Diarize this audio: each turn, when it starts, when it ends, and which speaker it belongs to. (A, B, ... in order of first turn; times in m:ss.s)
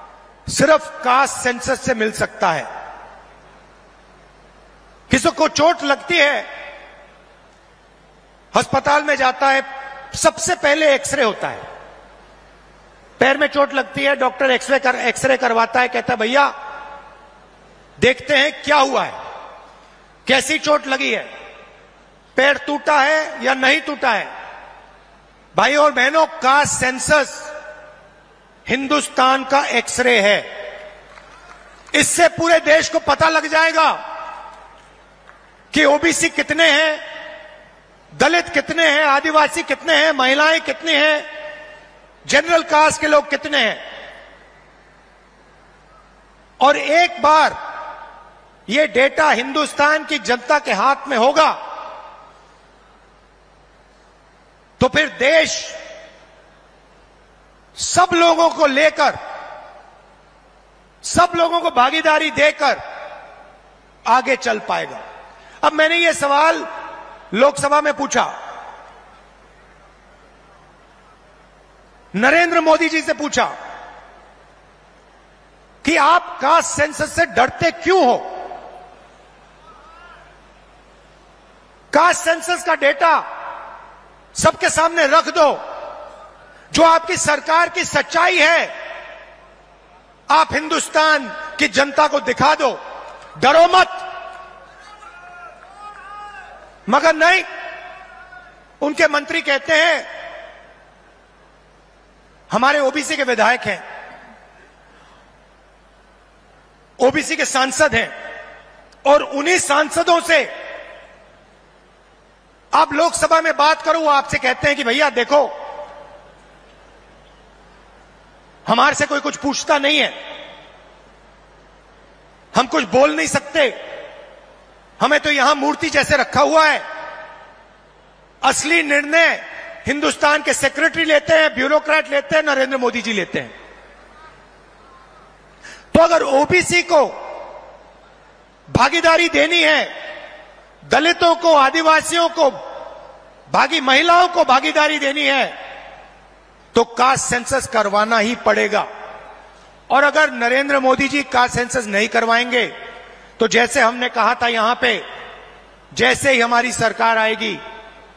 0:00.5-0:02.7 A
0:05.1-0:06.5 A
0:08.5-0:11.6 A
0:13.2-0:16.5 A
0:18.0-0:19.1 A
0:20.2-0:21.3 A
0:22.3-0:24.3 A
0:25.5-0:27.5 A
0:28.7-0:30.4 A
0:31.9-0:34.0 A
0:35.7-0:37.0 A
0:38.2-0:41.2 A
0:42.3-0:43.8 A
0:46.6-0:47.6 A
0:48.7-0:51.6 A
0:54.8-0:55.8 A
0:57.8-0:59.2 A
1:01.0-1:02.8 A
1:04.0-1:05.0 A
1:05.6-1:06.7 A
1:07.3-1:08.3 A
1:12.1-1:13.5 A
1:15.8-1:18.4 A
1:21.9-1:23.2 A
1:24.4-1:25.6 A
1:26.7-1:28.7 A
1:30.3-1:32.8 A
1:33.4-1:34.1 A
1:36.9-1:37.5 A
1:38.8-1:40.1 A
1:42.5-1:43.8 A
1:47.0-1:48.1 A
1:49.0-1:50.5 A
1:52.7-1:55.5 A
1:58.7-2:00.1 A
2:02.5-2:03.8 A
2:05.0-2:06.8 A
2:08.4-2:13.5 A
2:15.9-2:17.1 A
2:18.7-2:19.9 A
2:20.9-2:22.6 A
2:23.5-2:25.5 A
2:26.7-2:28.9 A
2:29.9-2:32.7 A
2:33.4-2:35.0 A
2:35.9-2:37.6 A